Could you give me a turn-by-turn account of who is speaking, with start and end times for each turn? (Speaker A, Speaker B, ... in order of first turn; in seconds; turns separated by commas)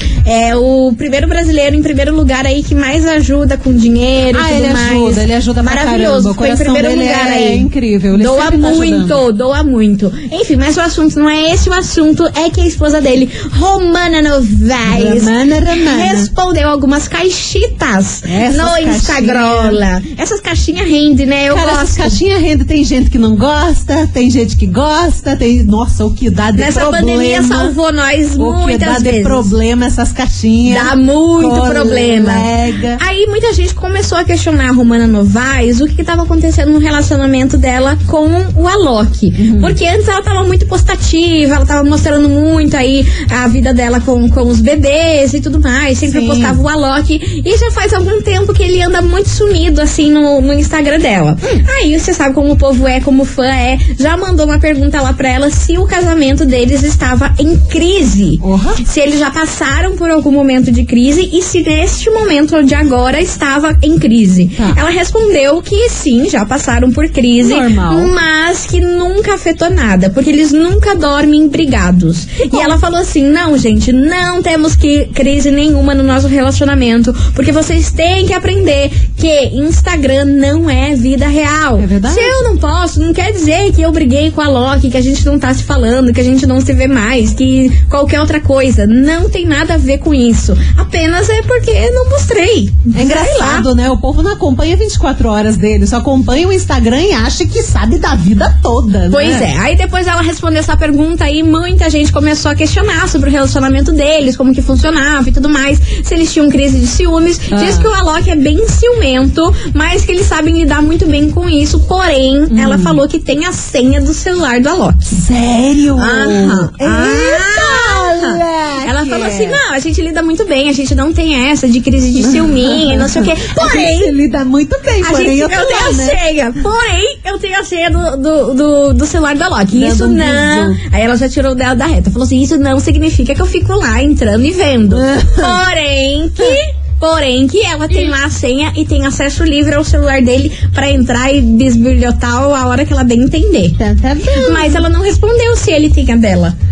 Speaker A: 0.2-22.2, Speaker B: 4.3-9.2, Speaker B: 14.8-16.3, Speaker B: 18.3-19.8, Speaker B: 21.5-27.7, Speaker A: 26.6-29.5, Speaker B: 28.4-33.0, Speaker A: 30.7-32.5, Speaker A: 33.0-93.7, Speaker B: 39.4-39.8, Speaker B: 46.0-46.6, Speaker B: 58.4-58.8, Speaker B: 67.4-68.1, Speaker B: 72.5-72.8, Speaker B: 81.8-82.3, Speaker B: 92.9-99.5, Speaker A: 99.1-115.2, Speaker B: 107.5-107.9, Speaker B: 112.5-113.0, Speaker B: 115.1-119.6, Speaker A: 116.0-124.1, Speaker B: 122.2-126.2, Speaker A: 125.0-143.8, Speaker B: 129.7-130.8, Speaker B: 134.9-135.5, Speaker B: 143.8-144.8, Speaker A: 144.4-146.5